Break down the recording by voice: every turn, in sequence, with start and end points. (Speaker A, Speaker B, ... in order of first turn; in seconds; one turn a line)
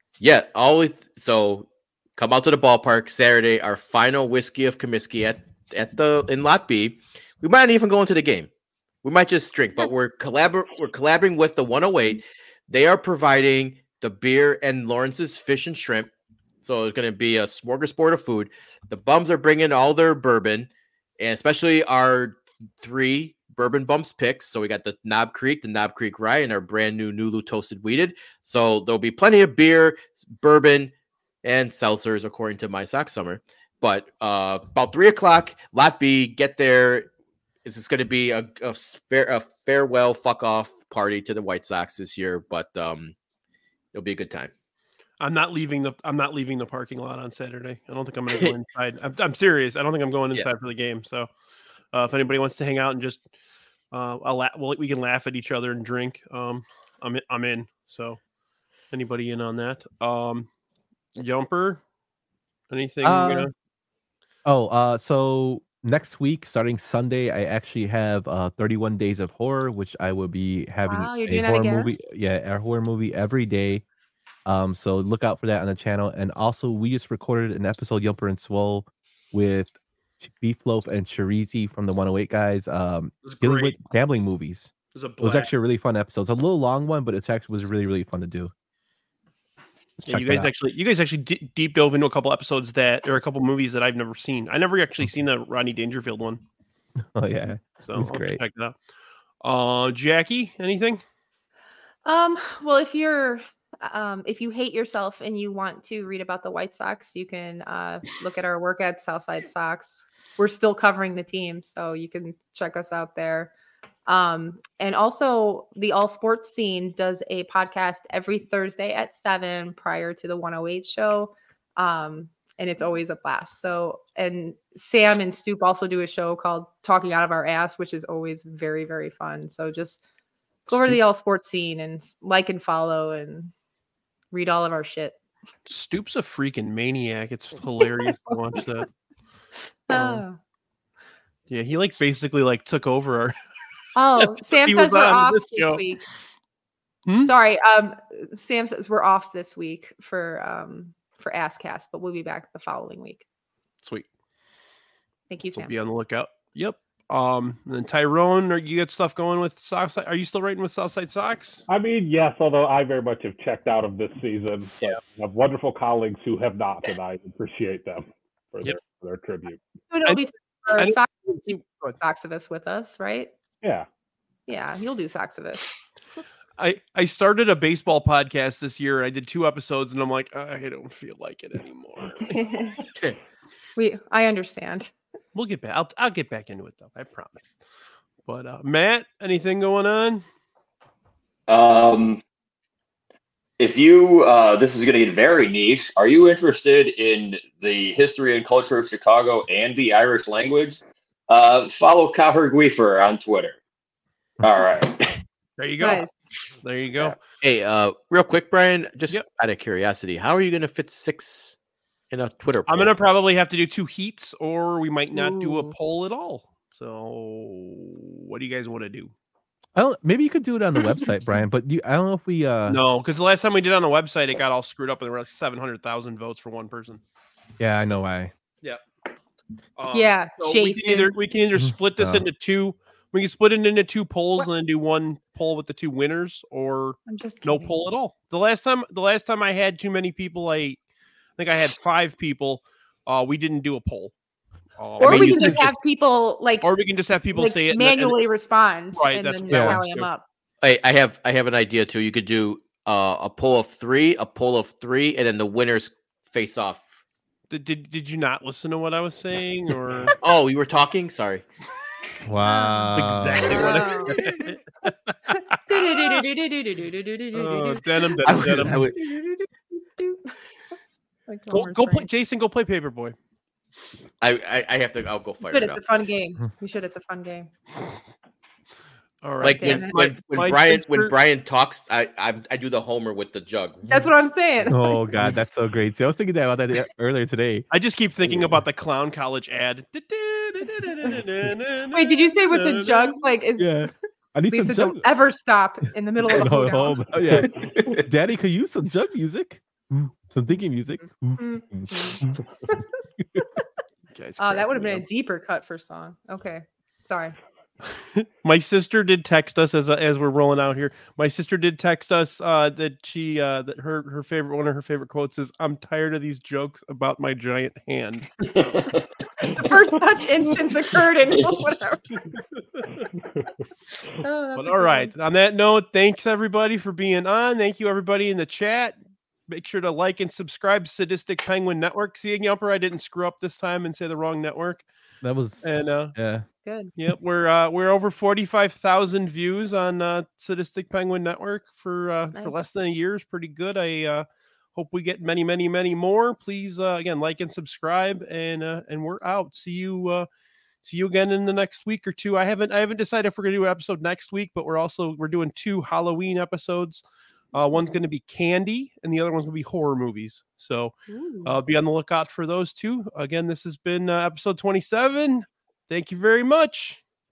Speaker A: 0.2-8.5
Speaker A: 9.0-16.1
Speaker A: 16.6-37.1
Speaker A: 37.6-43.1
Speaker A: 43.9-44.5
Speaker B: 45.2-51.3
Speaker B: 51.9-53.2
Speaker B: 53.9-58.2
Speaker B: 58.9-60.5
Speaker B: 61.2-61.8
Speaker B: 62.7-63.5
Speaker C: 63.0-63.5
Speaker C: 64.5-73.8
Speaker D: 70.9-71.9
Speaker C: 74.5-88.5
Speaker B: 83.2-83.8
Speaker B: 85.0-85.5
Speaker C: 90.0-90.5
Speaker B: 90.1-96.4
Speaker C: 97.2-98.4
Speaker B: 97.8-98.8
Speaker B: 99.4-101.0
Speaker D: 102.0-113.5
Speaker D: 114.1-130.0
Speaker D: 130.7-133.5
Speaker D: 134.3-135.2
Speaker B: 135.7-138.9
Speaker D: 139.9-140.4
Speaker B: 139.9-140.2
Speaker B: 141.5-143.3
Speaker D: 143.9-146.0
Speaker B: 144.2-145.9
Speaker B: 147.1-147.3
Speaker D: 147.2-153.2
Speaker D: 155.3-155.7
Speaker B: 155.5-161.6
Speaker E: 161.7-169.6
Speaker D: 169.9-173.3
Speaker B: 170.8-172.0
Speaker D: 174.5-175.7
Speaker B: 176.6-182.4
Speaker D: 182.3-182.8
Speaker D: 183.8-184.9
Speaker B: 185.3-187.6
Speaker B: 188.2-190.2
Speaker F: 191.5-192.2
Speaker F: 193.6-203.6
Speaker F: 204.4-205.1
Speaker B: 205.6-206.1
Speaker D: 205.8-206.1
Speaker B: 206.6-207.2
Speaker A: 207.4-211.6
Speaker A: 212.1-212.9
Speaker B: 212.7-219.1
Speaker D: 215.1-215.7
Speaker C: 219.8-222.8
Speaker B: 222.7-227.0
Speaker C: 227.6-228.3
Speaker B: 229.8-240.8
Speaker D: 229.9-231.1
Speaker C: 231.6-232.3
Speaker D: 237.1-237.8
Speaker B: 241.4-244.1
Speaker B: 244.8-245.7
Speaker D: 245.0-246.7
Speaker A: 245.0-245.7
Speaker B: 246.6-248.2
Speaker D: 247.3-250.2
Speaker B: 248.9-250.1
Speaker C: 249.5-249.8
Speaker A: 250.6-257.0
Speaker B: 257.5-260.1
Speaker A: 260.2-261.4
Speaker C: 262.2-263.9
Speaker D: 262.4-264.2
Speaker B: 262.9-266.2
Speaker D: 265.7-267.8
Speaker B: 267.3-268.8
Speaker A: 268.2-269.0
Speaker D: 268.9-270.4
Speaker D: 271.3-272.1
Speaker B: 271.5-273.1
Speaker A: 274.2-275.8
Speaker D: 275.5-277.5
Speaker B: 279.2-281.1
Speaker A: 279.4-284.1
Speaker D: 279.5-279.9
Speaker D: 283.9-285.1
Speaker C: 284.7-287.7
Speaker B: 287.7-293.3
Speaker C: 288.3-288.6
Speaker D: 291.9-293.9
Speaker C: 293.6-295.0
Speaker D: 294.5-297.1
Speaker C: 296.3-302.4
Speaker A: 297.4-298.0
Speaker D: 301.4-302.8
Speaker B: 304.1-305.1
Speaker D: 304.4-307.4
Speaker B: 308.1-318.3
Speaker F: 318.4-319.5
Speaker D: 319.4-322.1
Speaker F: 321.3-321.6
Speaker D: 324.2-325.1
Speaker B: 324.6-329.0
Speaker B: 329.5-334.9
Speaker C: 335.2-336.4
Speaker B: 335.6-336.1
Speaker D: 336.6-336.9
Speaker B: 337.0-350.3
Speaker B: 350.8-357.0
Speaker B: 357.5-360.9
Speaker D: 361.1-361.6
Speaker B: 361.4-367.0